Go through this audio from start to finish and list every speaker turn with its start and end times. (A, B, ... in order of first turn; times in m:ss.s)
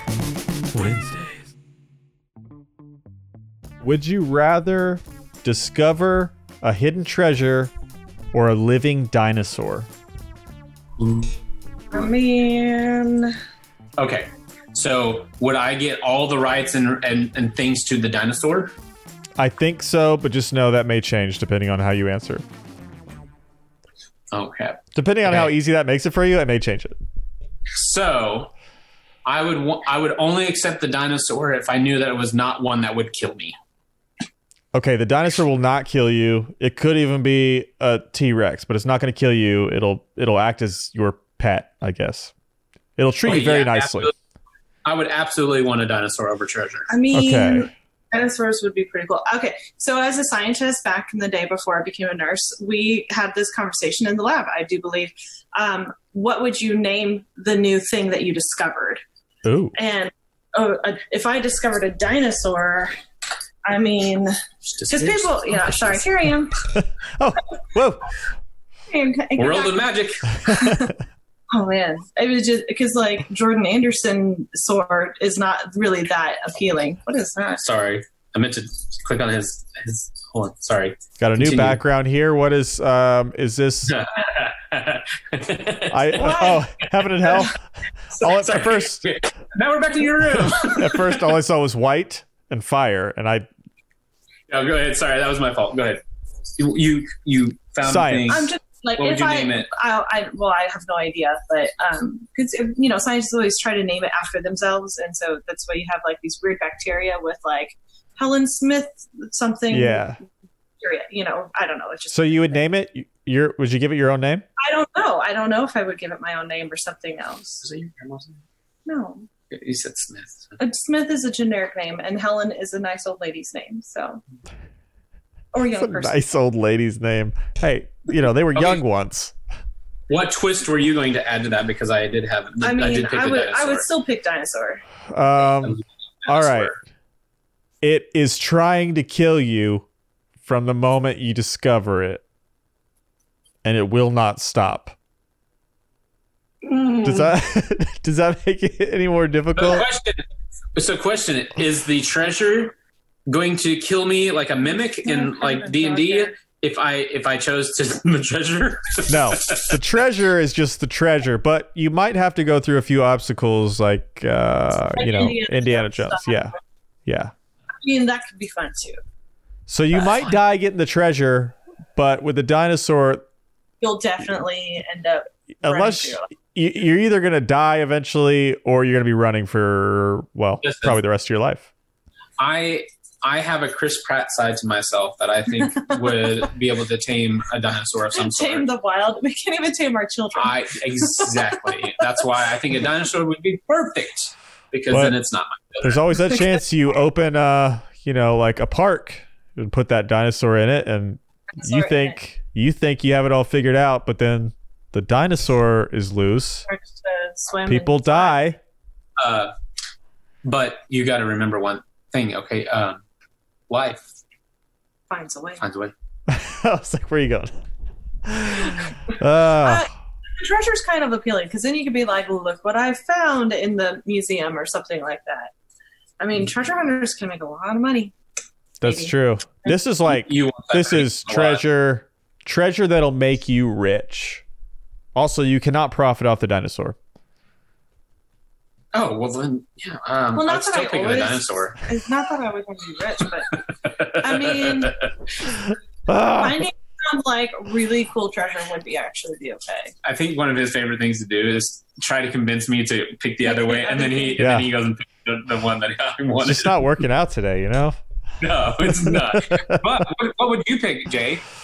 0:00.7-0:01.5 A
0:03.8-0:07.7 A
0:08.3-0:09.9 A
0:11.0-0:11.3 B
0:11.9-0:13.3 C
0:14.0-0:18.7 B
0:19.4-0:22.4 A
0:24.3-0:25.5 B
0:24.9-0:27.0 A
0:27.7-0:28.5 B
0:29.2-0:33.6 B
0:34.7-0:42.3 A
0:43.0-0:44.1 A
0:43.2-0:44.1 B
0:44.8-0:46.9 B
0:46.9-0:59.0 C
0:47.1-0:47.7 A
0:59.4-0:59.7 A
0:59.7-1:02.9 C
1:03.7-1:04.3 C
1:04.7-1:06.0 B
1:04.9-1:06.6 C
1:06.7-1:08.0 A
1:08.9-1:10.9 C
1:09.4-1:10.3 B
1:11.5-1:17.6 C
1:17.6-1:21.8 B
1:21.2-1:24.0 A
1:23.9-1:26.6 B
1:25.9-1:27.6 A
1:26.2-1:26.6 C
1:28.2-1:29.1 A
1:28.2-1:31.3 B
1:30.4-1:33.5 A
1:34.5-1:36.0 B
1:36.6-1:39.7 B
1:37.8-1:38.5 A
1:38.3-1:50.1 C
1:49.7-1:50.2 A
1:50.8-1:52.6 C
1:52.1-1:54.4 A
1:54.6-1:57.6 C
1:57.6-1:58.4 B
1:58.8-1:59.3 C
1:59.5-2:00.6 B
2:00.6-2:04.2 C
2:05.5-2:06.2 C
2:05.8-2:09.3 A
2:08.5-2:08.8 B
2:10.1-2:13.8 B
2:12.6-2:14.8 C
2:15.1-2:16.7 A
2:15.6-2:16.8 B
2:17.8-2:19.9 A
2:20.4-2:22.2 A
2:23.6-2:24.9 A
2:26.6-2:27.3 B
2:27.0-2:29.8 A
2:29.5-2:30.2 B
2:30.8-2:32.8 B
2:33.3-2:39.8 B
2:34.7-2:36.4 C
2:39.1-2:46.5 A
2:44.9-2:46.5 C
2:47.0-2:47.3 A
2:47.8-2:49.0 C
2:49.7-2:53.2 A
2:49.9-2:50.3 B
2:53.8-2:56.3 C
2:55.6-3:01.7 A
3:00.6-3:01.0 B
3:02.4-3:08.7 B
3:05.7-3:06.1 C
3:08.1-3:12.1 C
3:10.3-3:16.0 B
3:14.9-3:15.2 A
3:15.8-3:26.6 A
3:21.5-3:22.2 C
3:26.7-3:28.5 C
3:27.7-3:28.6 A
3:29.2-3:29.5 B
3:30.4-3:33.0 B
3:33.7-3:34.1 B
3:35.1-3:35.6 C
3:35.6-3:35.9 B
3:36.3-3:37.5 A
3:38.2-3:39.9 A
3:39.6-3:45.5 C
3:46.2-3:48.1 C
3:48.8-3:54.4 A
3:48.8-3:49.7 C
3:50.1-3:51.6 B
3:55.1-3:57.0 A
3:58.9-4:01.8 B
4:00.3-4:03.5 C
4:03.6-4:05.0 B
4:04.2-4:04.9 C
4:06.1-4:06.6 A
4:06.4-4:09.9 C
4:10.0-4:16.8 B
4:13.4-4:14.4 C
4:14.4-4:14.7 A
4:16.4-4:18.0 A
4:18.4-4:21.4 B
4:18.8-4:19.8 A